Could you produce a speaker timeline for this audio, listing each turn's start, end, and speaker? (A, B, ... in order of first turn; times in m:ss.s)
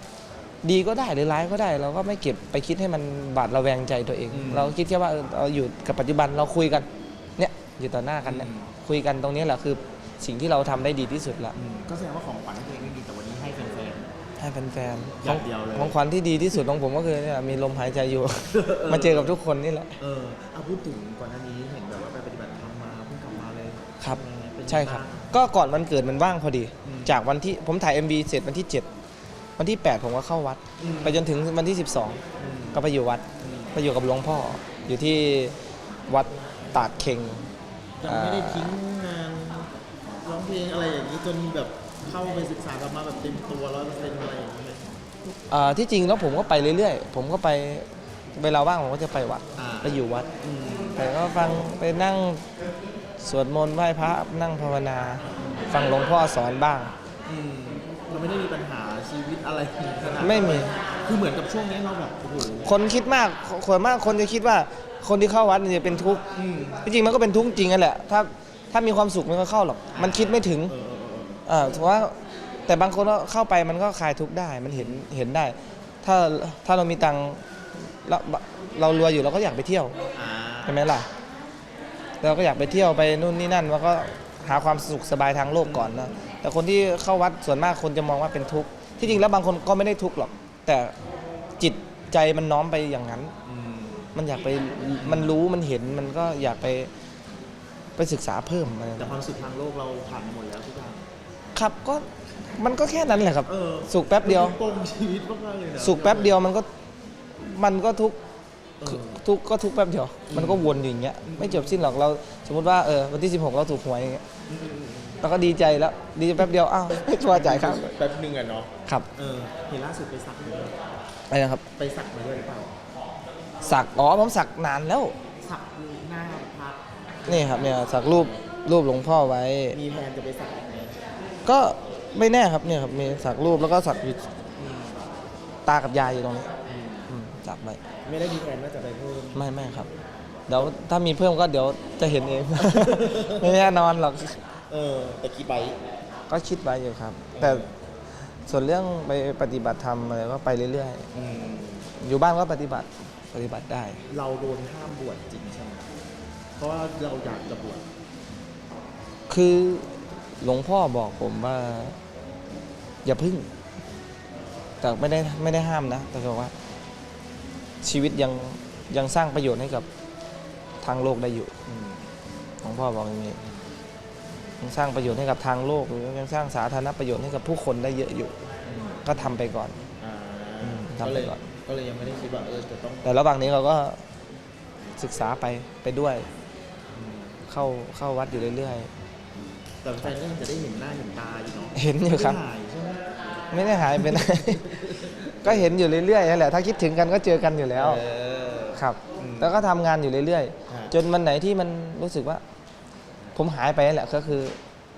0:00.6-0:06.9 A
0:04.3-0:04.8 B
0:07.4-0:11.6 A
0:08.2-0:08.7 B
0:11.6-0:14.1 B
0:14.4-0:20.0 A
0:15.2-0:16.0 B
0:18.5-0:19.4 B
0:20.0-0:25.4 B
0:24.0-0:28.9 A
0:26.8-0:27.2 B
0:29.6-0:32.2 A
0:30.8-0:31.2 B
0:32.4-0:33.8 B
0:32.7-0:35.6 A
0:36.1-0:37.5 A
0:38.0-0:44.9 B
0:38.0-0:38.7 A
0:45.3-0:50.3 A
0:49.6-0:51.0 B
0:51.0-0:52.4 A
0:53.2-0:56.9 A
0:57.3-1:02.8 B
1:00.2-1:00.8 A
1:02.6-1:06.2 A
1:06.3-1:06.9 B
1:06.8-1:10.7 A
1:09.9-1:11.4 B
1:11.5-1:12.1 A
1:12.7-1:20.0 A
1:14.7-1:15.0 B
1:20.1-1:20.9 B
1:20.7-1:21.1 A
1:22.2-1:31.0 A
1:25.6-1:26.1 B
1:29.0-1:29.3 B
1:31.6-1:33.3 A
1:33.4-1:34.1 B
1:34.1-1:36.9 A
1:35.0-1:35.4 B
1:38.0-1:39.2 A
1:39.0-1:41.1 B
1:41.6-1:44.6 A
1:43.4-1:46.5 B
1:45.8-1:46.7 A
1:47.4-1:48.2 A
1:48.8-1:49.2 B
1:48.9-1:54.2 A
1:50.3-1:51.9 B
1:54.5-1:55.2 B
1:55.2-1:57.9 A
1:57.1-2:00.8 B
2:01.3-2:01.6 A
2:01.8-2:02.8 B
2:03.6-2:05.2 A
2:05.4-2:08.4 B
2:07.3-2:09.8 A
2:09.7-2:11.0 B
2:11.4-2:14.3 A
2:14.6-2:15.0 B
2:15.7-2:16.5 A
2:16.6-2:17.1 B
2:17.1-2:17.8 A
2:18.0-2:19.5 B
2:19.4-2:19.9 A
2:20.5-2:24.4 A
2:22.6-2:23.6 B
2:24.7-2:25.8 B
2:26.3-2:27.7 A
2:27.4-2:27.7 B
2:28.5-2:31.1 A
2:31.1-2:31.9 B
2:32.0-2:34.0 A
2:34.1-2:35.9 B
2:36.6-2:37.9 B
2:39.3-2:42.0 A
2:43.0-2:43.5 A
2:44.8-2:46.5 A
2:47.8-2:49.9 A
2:50.8-2:51.5 A
2:51.7-2:52.1 B
2:52.6-2:53.4 A
2:53.4-2:53.7 B
2:54.6-2:58.3 A
2:58.6-2:59.0 B
2:59.0-2:59.8 A
3:00.0-3:03.1 B
3:00.6-3:01.4 A
3:03.0-3:04.0 A
3:05.0-3:06.3 A
3:06.9-3:07.4 B
3:07.5-3:08.9 A
3:09.8-3:15.7 B
3:11.8-3:12.4 A
3:13.5-3:18.0 A
3:17.7-3:19.6 B
3:18.8-3:22.4 A
3:20.7-3:20.9 B
3:23.4-3:24.6 A